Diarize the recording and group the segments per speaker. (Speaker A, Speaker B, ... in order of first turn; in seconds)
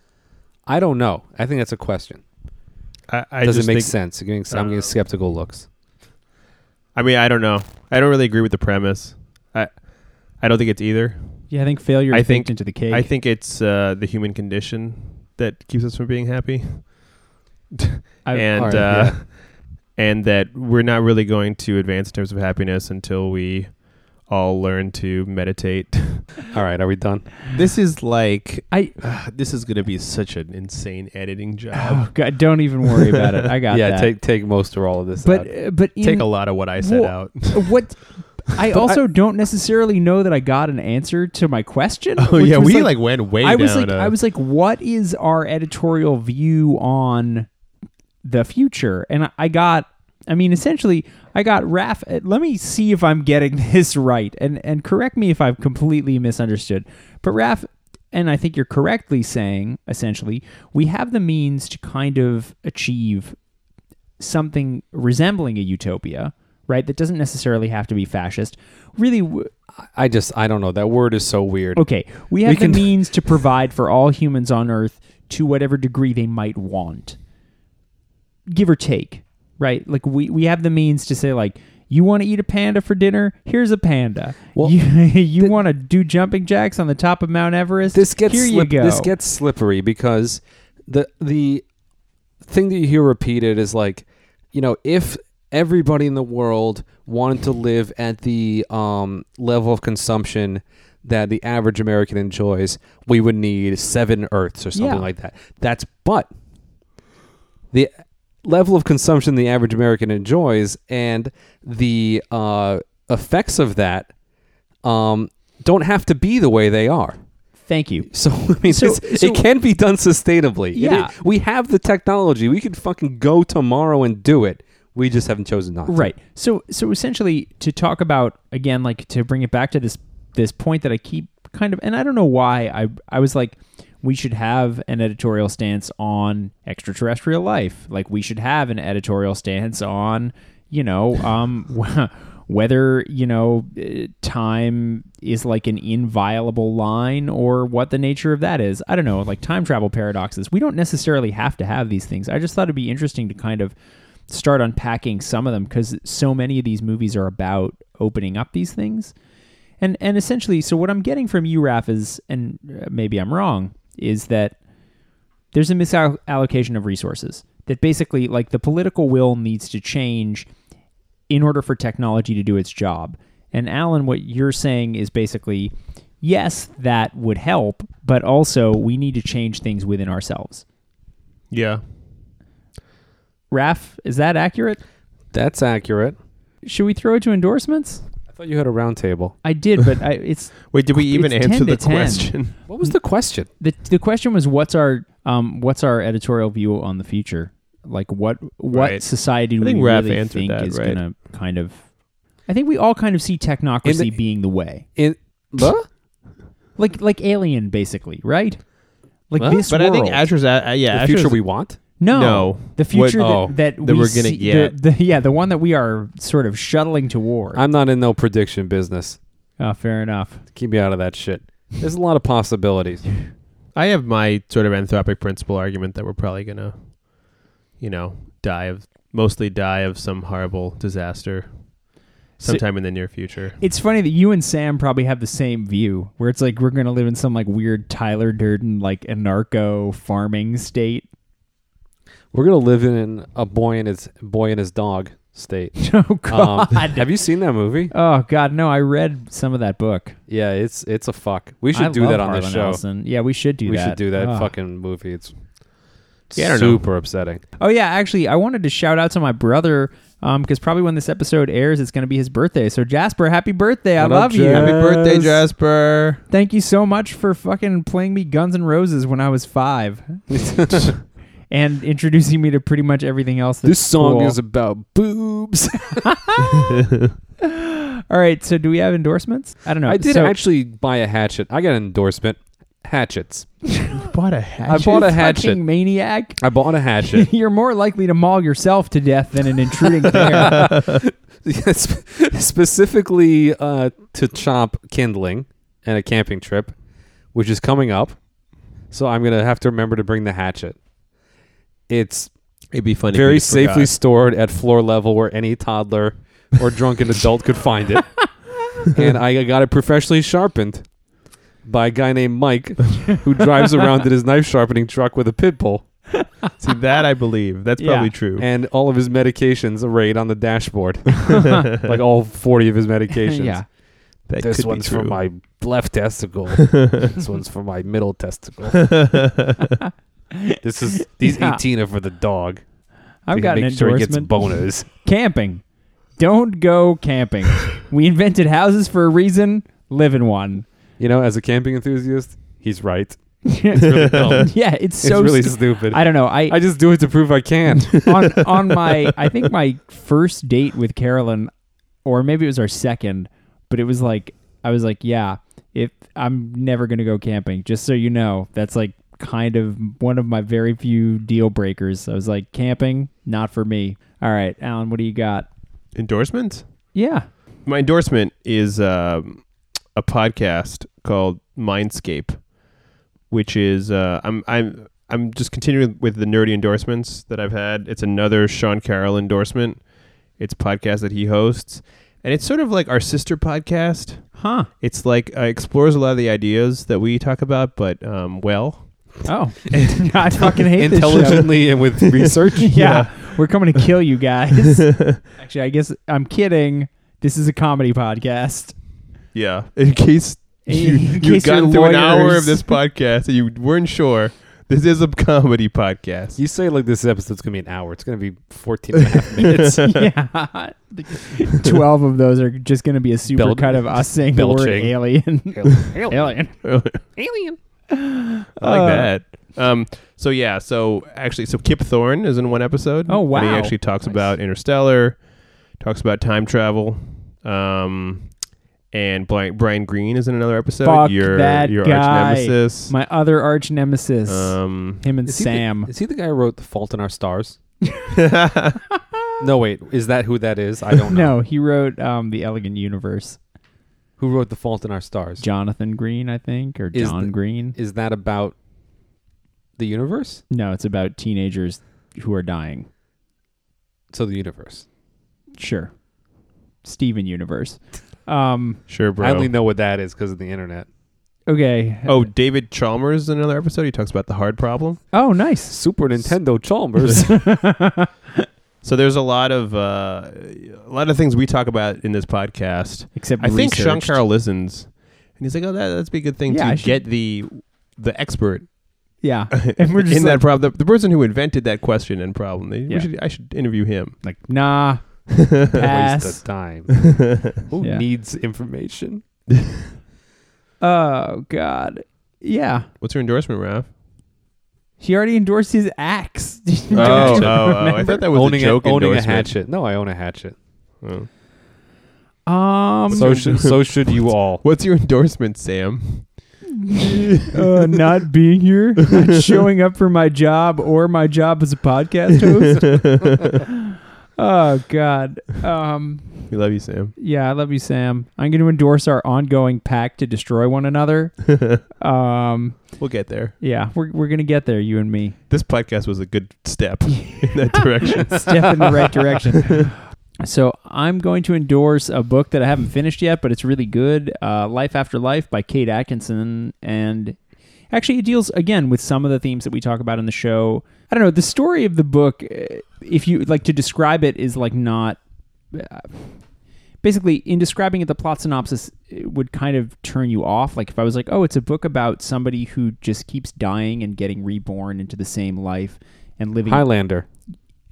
Speaker A: 0.7-2.2, 3.4-5.7, 18.6-19.2, 26.5-27.3, 33.7-35.5, 38.7-39.0, 69.8-71.8, 72.4-73.0, 87.9-91.6, 92.4-106.3, 108.4-114.1, 114.8-117.2, 118.1-126.1, 185.3-186.2, 188.3-189.3, 192.7-193.5, 203.8-204.2, 204.9-205.9, 210.9-211.8, 213.2-213.5, 217.5-219.2, 220.5-223.0, 242.3-247.9, 250.3-252.8, 253.7-255.3, 256.3-257.4, 264.0-265.3, 270.3-270.9, 273.6-276.1, 279.9-283.5, 284.7-285.6, 286.4-287.3, 290.0-296.7, 297.3-298.2, 298.9-300.8, 301.9-302.3, 303.1-308.3, 308.9-310.9, 311.6-315.8, 318.4-323.6, 324.4-328.9, 330.6-332.6, 333.3-334.9, 341.0-348.4, 390.8-392.8, 406.4-409.9, 413.3-415.0, 415.5-416.4, 417.1-417.6, 435.2-437.6, 439.4-441.4, 444.2-445.4, 446.9-448.5, 449.8-450.4, 454.1-454.8, 459.2-460.9, 465.7-467.4, 485.8-487.0, 487.6-489.2, 496.9-500.6, 503.1-504.6, 556.6-557.2
Speaker B: 3.1-3.9, 4.5-4.9, 6.9-9.7, 10.4-11.4, 12.1-17.0, 17.7-19.4, 19.9-26.4, 27.5-32.3, 36.0-37.8, 42.2-44.1, 181.5-181.8, 190.7-192.6, 198.7-199.1, 199.6-201.0, 209.7-211.4, 212.1-214.7, 223.7-227.1, 227.8-231.8, 232.4-233.6, 256.3-256.8, 264.5-266.2, 276.6-277.1, 283.9-285.1, 302.7-303.9, 316.6-318.5, 321.5-321.9, 324.3-325.2, 326.6-327.1, 328.7-329.8, 344.0-344.3, 365.9-366.7, 367.6-372.5, 373.3-379.9, 380.4-389.2, 392.0-393.4, 394.7-395.2, 399.3-406.4, 409.1-410.0, 416.6-417.0, 418.6-428.3, 428.9-432.9, 434.3-435.1, 438.1-438.8, 458.9-459.5, 462.0-465.0, 468.8-478.8, 479.5-484.2, 485.3-485.8, 493.0-493.9, 496.9-499.5, 501.0-501.3, 503.1-506.5, 512.8-513.4, 516.5-517.1, 521.5-521.8, 523.0-523.5, 525.5-528.9, 529.6-529.9
Speaker C: 11.5-13.1, 18.2-18.8, 31.7-34.1, 35.2-47.5, 48.2-63.4, 64.2-69.5, 71.8-77.2, 78.5-89.1, 104.7-105.0, 117.7-118.1, 118.6-119.4, 120.7-121.1, 125.9-153.7, 154.3-159.1, 159.8-164.6, 165.5-170.5, 171.3-180.6, 183.5-184.8, 186.6-188.0, 189.4-192.3, 193.6-201.9, 202.5-204.8, 206.8-208.6, 209.3-210.2, 212.0-217.6, 219.6-220.4, 233.6-241.1, 245.8-247.1, 247.9-250.2, 251.7-254.5, 257.6-264.8, 266.3-270.9, 271.5-274.4, 276.0-276.7, 277.4-280.4, 284.7-286.4, 287.0-290.7, 316.1-316.5, 317.8-318.1, 323.2-323.6, 329.8-331.6, 333.3-335.6, 336.2-340.6, 343.4-346.6, 347.7-351.5, 352.0-365.5, 366.9-367.3, 384.4-384.7, 389.2-391.5, 392.6-398.8, 400.6-402.7, 409.6-416.5, 417.9-419.1, 423.1-423.8, 430.8-435.9, 441.1-443.4, 445.4-447.8, 450.5-452.9, 455.6-455.9, 456.8-458.8, 461.5-462.2, 465.1-465.8, 467.2-468.4, 473.1-474.2, 476.5-477.0, 479.2-480.4, 484.2-486.4, 490.8-492.9, 495.0-498.2, 502.5-503.6, 506.8-513.0, 514.4-516.5, 517.2-523.0, 523.6-525.4, 528.0-537.4, 537.9-545.2, 545.7-546.4, 547.0-556.9